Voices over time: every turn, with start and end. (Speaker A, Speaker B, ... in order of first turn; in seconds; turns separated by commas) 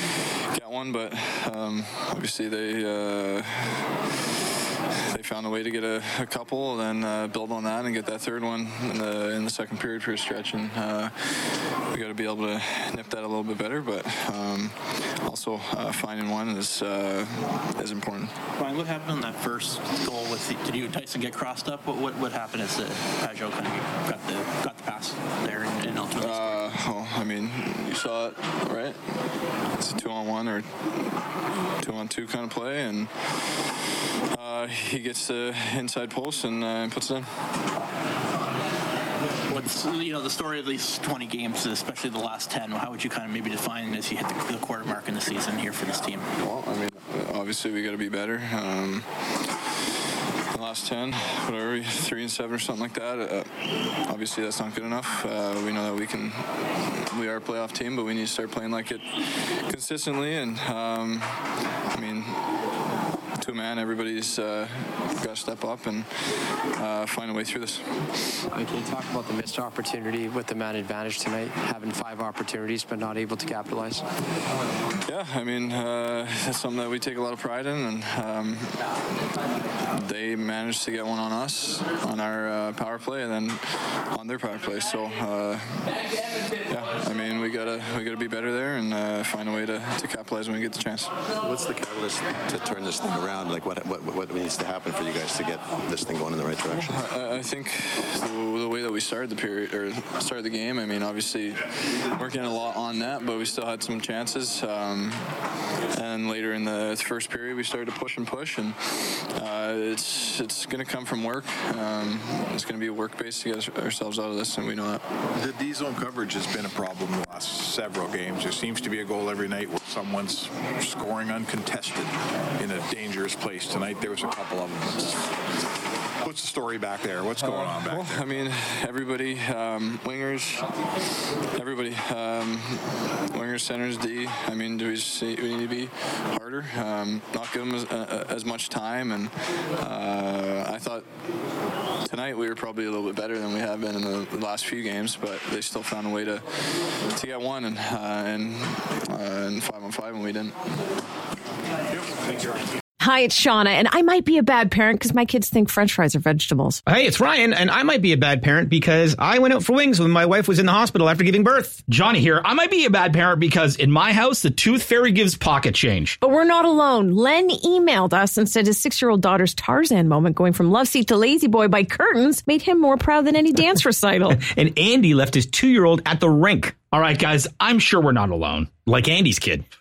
Speaker A: 0.5-3.9, Speaker A: 5.1-18.3, Speaker B: 18.6-26.7, Speaker A: 26.2-29.0, Speaker A: 29.8-30.7, Speaker A: 31.8-33.1, Speaker A: 34.3-37.3, Speaker B: 39.5-46.3, Speaker A: 46.4-49.1, Speaker A: 50.5-59.1, Speaker A: 59.7-61.4, Speaker A: 61.9-62.4, Speaker A: 63.4-67.9, Speaker C: 68.5-74.0, Speaker A: 75.1-78.8, Speaker A: 79.9-91.1, Speaker D: 91.4-97.1, Speaker A: 96.7-105.3, Speaker A: 105.9-115.0, Speaker E: 115.4-125.2, Speaker E: 126.2-128.2, Speaker A: 127.4-130.7, Speaker A: 131.6-141.1, Speaker A: 142.0-146.4, Speaker A: 147.1-150.6, Speaker F: 153.0-156.8, Speaker G: 156.9-161.8, Speaker H: 161.9-166.2, Speaker F: 166.2-174.4, Speaker G: 174.4-176.7, Speaker H: 176.8-179.6